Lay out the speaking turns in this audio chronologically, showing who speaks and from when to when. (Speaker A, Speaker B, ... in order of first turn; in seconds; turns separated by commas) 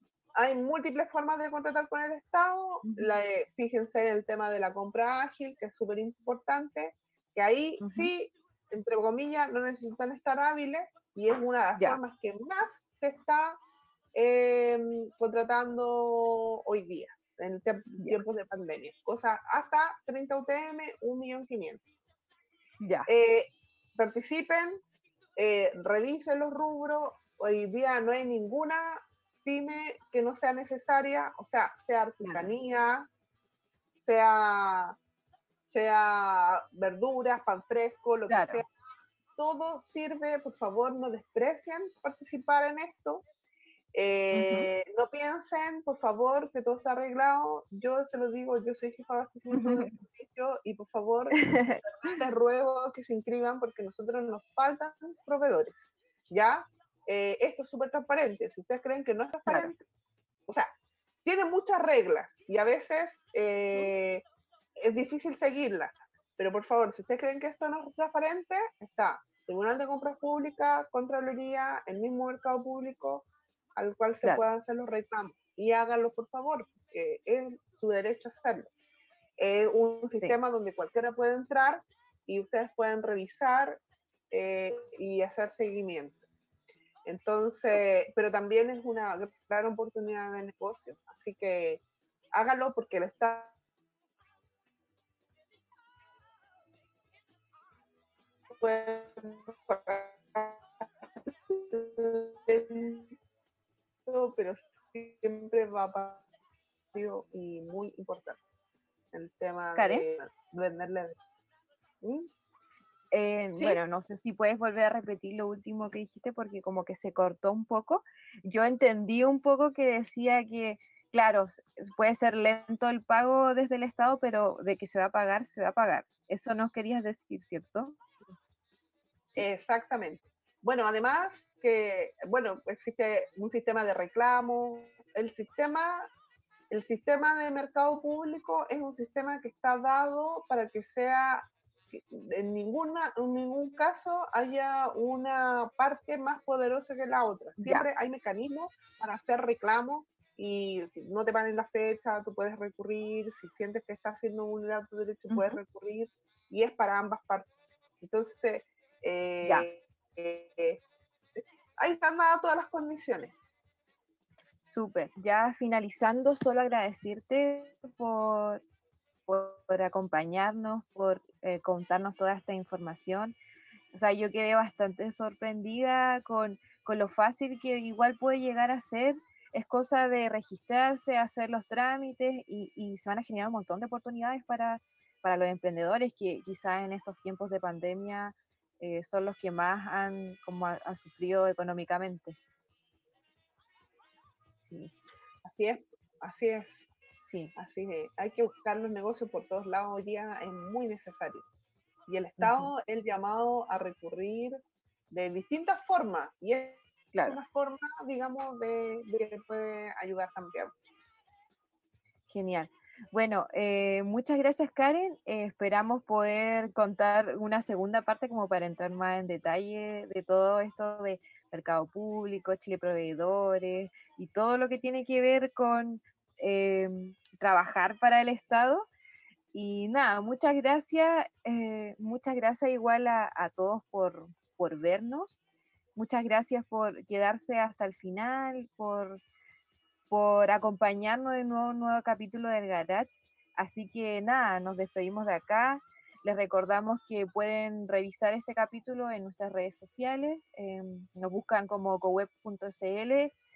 Speaker A: 0.3-13.6, Speaker B: 2.8-3.1, Speaker B: 7.8-8.1, Speaker A: 14.1-21.8, Speaker B: 18.0-18.2, Speaker B: 22.8-23.1, Speaker A: 23.1-24.8, Speaker A: 25.4-33.1, Speaker B: 32.2-32.5, Speaker A: 34.0-35.0, Speaker A: 35.7-38.7, Speaker B: 38.3-38.6, Speaker A: 39.4-43.2, Speaker A: 43.9-59.8, Speaker B: 44.3-44.7, Speaker B: 49.5-50.0, Speaker B: 51.4-51.8, Speaker B: 59.5-59.7, Speaker A: 60.5-60.7, Speaker A: 61.2-64.2, Speaker A: 64.8-78.7, Speaker A: 79.4-86.2, Speaker B: 80.1-80.3, Speaker A: 87.0-91.8, Speaker A: 92.3-93.5, Speaker A: 98.6-103.1, Speaker A: 104.0-106.2, Speaker A: 106.9-108.4, Speaker A: 109.1-111.2, Speaker B: 109.7-110.0, Speaker A: 112.0-112.3, Speaker B: 113.1-128.0, Speaker A: 129.4-136.1, Speaker A: 136.7-157.5, Speaker B: 147.6-147.9, Speaker B: 155.3-155.6, Speaker A: 158.0-160.8, Speaker A: 161.3-163.3, Speaker B: 164.6-168.6, Speaker B: 169.3-173.3, Speaker B: 173.9-192.4, Speaker B: 194.6-194.9, Speaker A: 195.4-196.9, Speaker B: 197.3-197.5, Speaker A: 197.6-201.4, Speaker A: 202.1-204.6, Speaker B: 202.4-202.7, Speaker A: 205.1-210.7, Speaker B: 212.3-228.9, Speaker B: 229.5-235.4, Speaker B: 235.9-239.2, Speaker B: 240.1-253.3